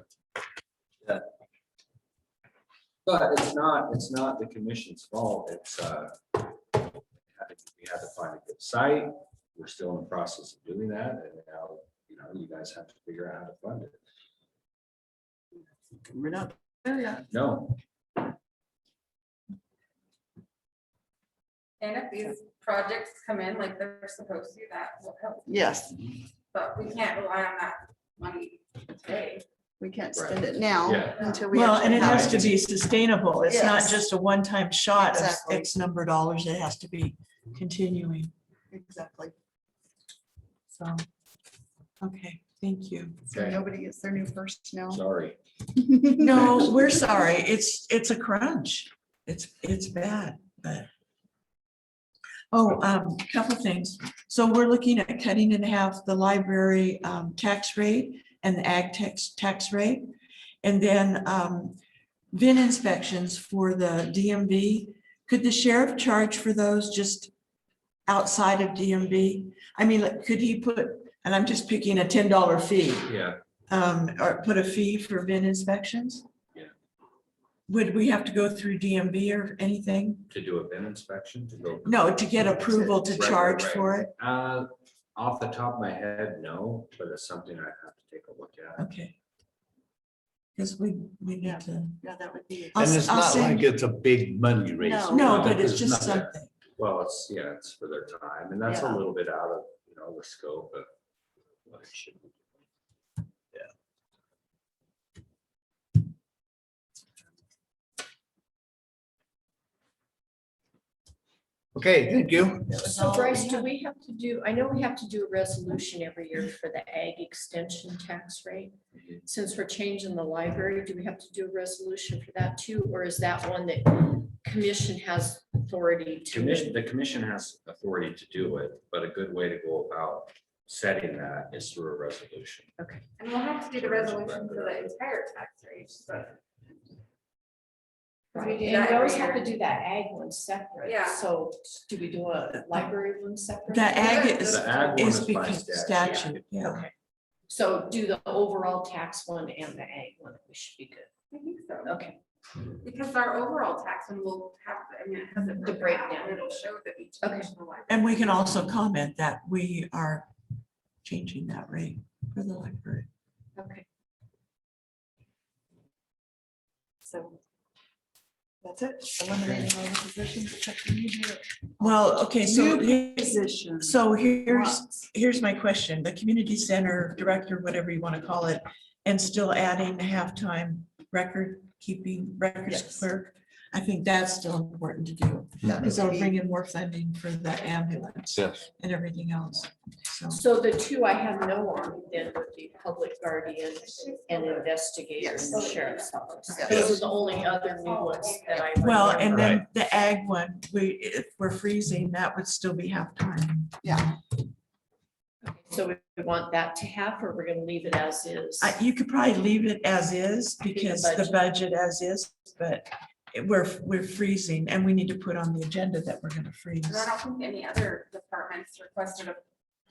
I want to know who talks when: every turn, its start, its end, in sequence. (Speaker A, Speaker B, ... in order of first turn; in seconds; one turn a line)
Speaker A: 3.0-6.8
Speaker A: 7.3-14.0
Speaker B: 16.1-17.2
Speaker A: 17.3-17.8
Speaker C: 21.8-25.5
Speaker B: 25.5-26.0
Speaker C: 26.5-29.4
Speaker B: 29.8-32.6
Speaker A: 30.1-32.5
Speaker D: 31.5-38.3
Speaker B: 33.4-34.0
Speaker B: 35.0-35.7
Speaker B: 38.7-39.3
Speaker D: 40.7-41.0
Speaker D: 42.0-43.4
Speaker B: 43.3-45.0
Speaker A: 43.3-43.6
Speaker A: 44.9-45.4
Speaker B: 45.8-46.7
Speaker D: 46.2-50.9
Speaker D: 52.5-60.1
Speaker D: 60.6-61.8
Speaker D: 62.3-67.3
Speaker D: 68.1-73.1
Speaker A: 73.0-73.4
Speaker D: 73.7-76.2
Speaker D: 77.7-80.3
Speaker A: 80.3-82.1
Speaker D: 81.8-84.1
Speaker B: 82.6-83.4
Speaker A: 83.0-88.8
Speaker D: 88.8-89.1
Speaker D: 90.5-92.0
Speaker B: 91.4-93.5
Speaker D: 92.7-93.7
Speaker E: 92.8-95.9
Speaker B: 94.8-95.3
Speaker D: 95.1-96.5
Speaker A: 95.1-100.9
Speaker B: 98.7-99.0
Speaker A: 101.7-102.5
Speaker E: 111.7-112.7
Speaker B: 112.6-113.7
Speaker F: 112.8-118.7
Speaker F: 119.2-126.8
Speaker A: 126.3-132.7
Speaker C: 133.2-136.4
Speaker A: 133.7-135.0
Speaker F: 138.3-144.2
Speaker C: 138.3-139.5
Speaker C: 140.8-141.2
Speaker D: 143.7-146.8
Speaker C: 143.9-144.7
Speaker A: 144.3-146.4
Speaker F: 146.0-146.9
Speaker F: 147.5-151.1
Speaker C: 151.3-152.0
Speaker F: 151.8-152.2
Speaker C: 152.8-158.6
Speaker F: 155.6-156.7
Speaker F: 157.2-157.5
Speaker D: 157.9-160.3
Speaker D: 161.0-163.1
Speaker B: 163.6-163.8
Speaker B: 167.1-167.4
Speaker B: 168.6-175.1
Speaker D: 171.8-190.4
Speaker B: 182.7-183.0
Speaker B: 185.6-186.3
Speaker F: 190.3-199.6
Speaker C: 194.1-194.6
Speaker B: 195.2-195.6
Speaker C: 195.5-198.9
Speaker B: 196.5-197.0
Speaker D: 198.8-204.0
Speaker E: 199.3-199.6
Speaker B: 203.8-204.1
Speaker F: 205.4-208.8
Speaker D: 208.6-217.1
Speaker F: 210.7-211.3
Speaker C: 216.8-219.4